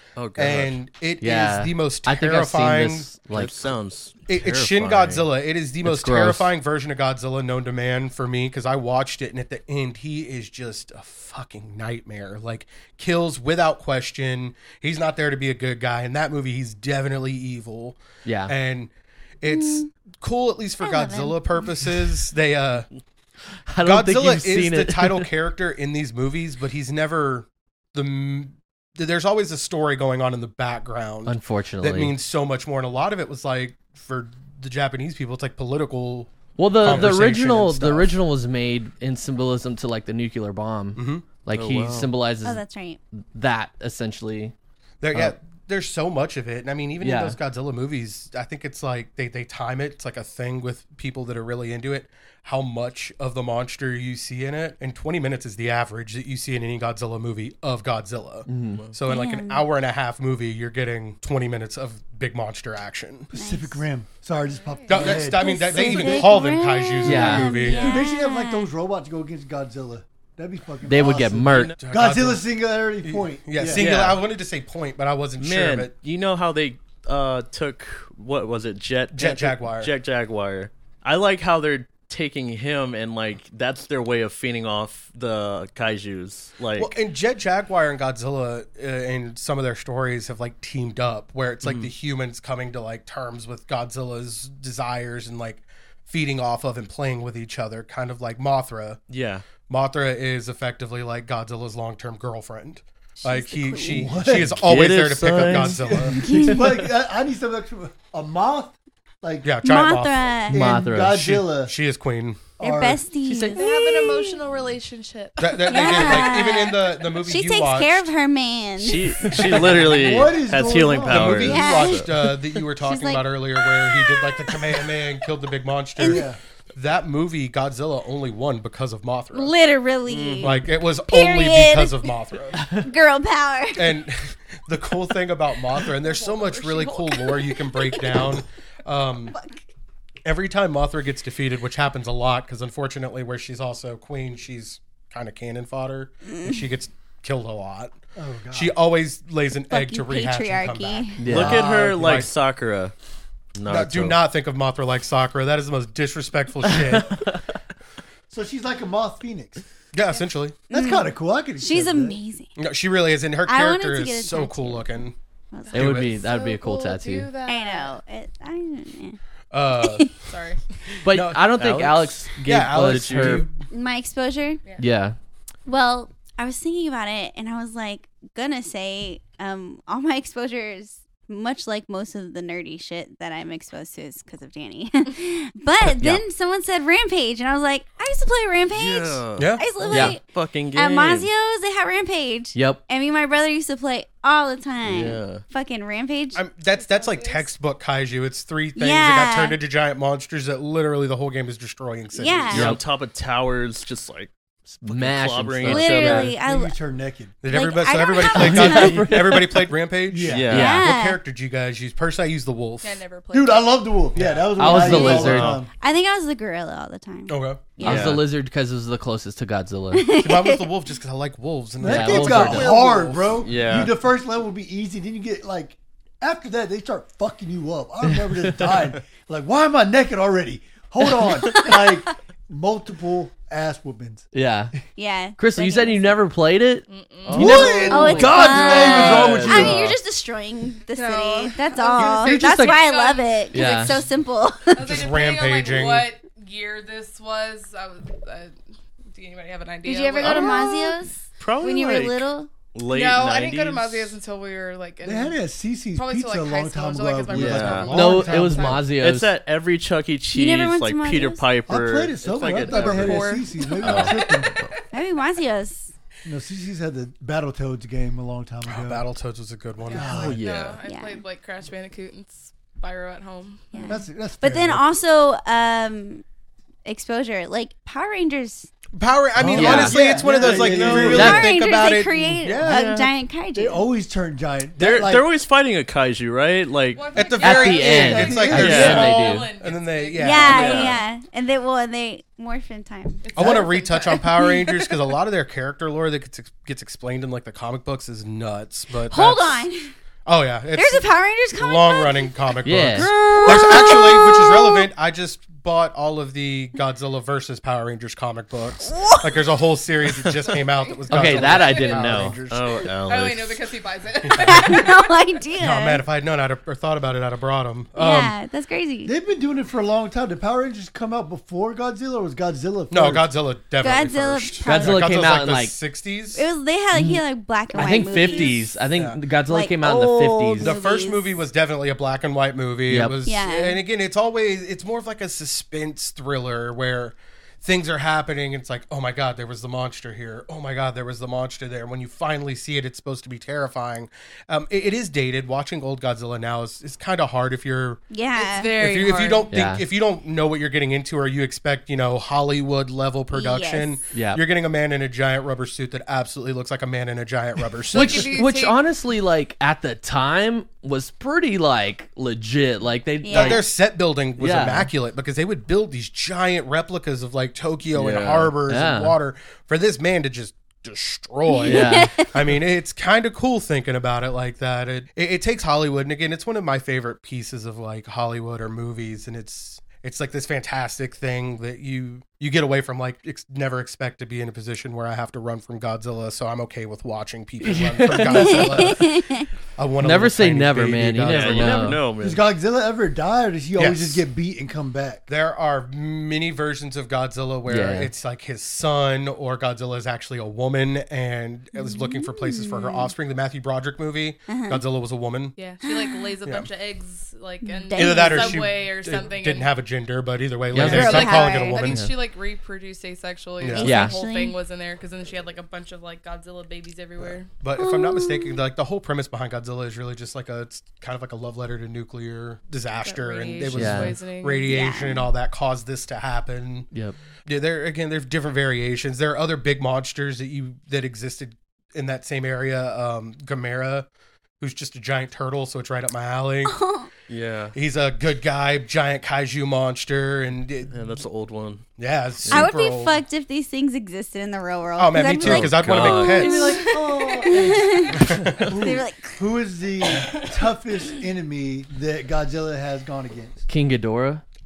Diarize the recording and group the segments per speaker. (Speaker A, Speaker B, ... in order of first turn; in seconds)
Speaker A: 0.2-0.8, 3.3-5.3, 36.9-37.1, 41.5-42.1, 71.1-71.8, 73.7-74.2, 75.4-86.9, 91.6-91.9, 99.1-99.4, 104.6-106.3, 118.8-122.1, 130.1-130.6, 151.3-152.9, 153.6-154.2, 171.6-173.5, 188.7-191.3, 194.8-195.4, 202.5-206.3, 210.3-210.9, 215.0-215.6, 217.8-218.2, 223.4-223.9, 237.2-239.9, 250.2-250.9, 251.4-254.2, 257.3-258.0, 258.9-264.7, 270.1-270.8, 279.6-281.4, 282.6-283.1, 284.8-287.1, 288.5-289.2, 290.4-291.0, 312.4-313.6, 367.9-368.5, 391.2-392.4, 437.3-437.8, 440.9-441.9, 445.3-446.9
Speaker B: 0.4-3.1, 4.3-22.9, 23.8-38.1, 41.0-41.2, 45.0-63.3, 64.9-67.8, 71.8-72.5, 73.0-75.9, 79.1-79.9, 86.8-99.0, 99.7-106.2, 109.4-110.5, 111.1-112.5, 115.4-118.1, 119.4-120.0, 121.1-129.5, 130.4-132.7, 133.8-139.4, 140.2-148.0, 148.5-152.3, 153.7-157.2, 159.9-160.6, 162.6-165.2, 165.7-166.1, 169.5-170.1, 171.1-171.5, 172.4-173.5, 189.4-189.7, 196.3-202.8, 207.4-213.0, 214.2-214.5, 217.3-217.6, 220.1-223.4, 244.8-246.1, 268.7-270.4, 278.9-282.8, 287.1-291.0, 293.3-299.6, 300.3-312.3, 314.3-314.8, 315.6-318.3, 322.9-326.5, 328.9-329.2, 330.6-348.0, 348.8-358.3, 363.3-389.2, 389.8-392.0, 393.8-394.2, 395.3-405.6, 407.9-412.1, 413.6-414.0, 417.2-426.9, 427.5-434.1, 434.6-436.8, 437.7-441.1, 442.0-443.2, 445.0-446.8, 448.1-448.7
Speaker C: 1.2-3.6, 5.8-6.5, 18.2-18.5, 23.7-25.3, 31.3-32.1, 36.6-42.6, 43.3-44.5, 47.0-47.4, 58.5-58.8, 67.0-67.7, 70.8-71.8, 110.5-111.3, 151.2-151.6, 156.7-157.4, 165.7-167.3, 171.1-173.5, 174.8-175.2, 185.8-186.2, 189.9-190.2, 192.6-192.8, 202.5-202.8, 204.8-206.4, 208.3-209.6, 210.5-210.9, 214.6-215.6, 217.8-220.1, 221.8-222.8, 234.3-234.8, 235.4-238.6, 242.0-242.8, 243.5-244.1, 257.9-259.3, 279.6-280.0, 281.1-281.5, 287.4-289.5, 302.6-303.8, 311.1-312.4, 324.6-325.8, 326.9-330.8, 332.9-333.2, 349.5-349.8, 354.1-354.4, 357.9-363.7, 364.4-364.9, 368.6-369.2, 371.6-372.1, 387.6-388.9, 390.0-392.1, 397.7-398.1, 410.7-412.1, 413.8-414.2, 423.7-424.2, 453.7-454.4
Speaker D: 19.5-19.9, 20.8-21.9, 42.4-43.0, 59.1-59.7, 63.3-63.8, 65.0-68.7, 103.2-104.4, 106.2-106.8, 109.6-110.7, 112.6-114.4, 115.7-119.4, 121.4-123.3, 123.9-124.8, 129.3-132.1, 132.7-134.0, 146.3-146.6, 149.7-151.2, 160.7-162.5, 163.5-166.0, 167.4-169.2, 169.7-170.1, 173.7-174.6, 175.7-190.2, 190.8-196.4, 198.8-199.6, 202.1-202.8, 205.6-206.7, 207.5-209.1, 210.5-211.2, 214.8-218.2, 219.9-220.7, 235.0-236.2, 237.7-245.0, 249.8-252.5, 260.3-261.4, 264.9-265.9, 270.9-271.2, 273.7-276.2, 276.9-278.7, 281.1-283.9, 290.2-293.3, 299.1-299.9, 300.8-302.4, 303.1-304.9, 308.8-309.4, 314.4-316.0, 318.0-319.1, 323.8-325.0, 326.3-328.8, 329.5-331.3, 333.2-333.8, 348.1-348.8, 353.3-354.0, 363.2-363.6, 371.5-372.4, 388.4-389.5, 401.8-403.1, 404.5-404.8, 405.8-406.3, 407.6-408.6, 410.8-411.9, 413.8-414.6, 417.8-418.6, 424.7-425.3, 436.7-437.1, 442.5-449.4
Speaker E: 63.3-66.5, 67.2-73.9, 103.8-104.7, 105.4-109.5, 110.5-111.7, 112.6-113.0, 119.7-121.6, 126.0-126.4, 148.2-148.8, 158.3-159.6, 160.7-162.2, 206.4-207.3, 210.1-210.5, 213.3-215.7, 221.8-234.3, 237.3-239.9, 255.0-258.9, 261.7-264.5, 266.2-269.0, 269.9-270.4, 273.9-274.9, 279.4-281.5, 282.5-282.9, 283.6-285.3, 287.8-289.0, 311.4-312.8, 319.1-323.3, 392.2-395.2, 448.7-453.6
Speaker F: 64.5-65.2, 67.6-68.0, 113.3-116.7, 136.0-138.1, 165.7-168.0, 170.3-170.6, 196.7-197.5, 212.8-213.9, 236.9-237.5, 238.6-239.0, 240.9-243.9, 244.7-248.6, 249.1-251.1, 252.9-255.4, 255.9-258.9, 262.4-265.1, 269.9-274.0, 286.9-291.0, 293.2-295.0, 310.8-312.2, 313.1-315.0, 348.4-349.5, 357.9-358.8, 405.6-409.7, 411.1-417.5, 423.0-424.7, 446.6-447.8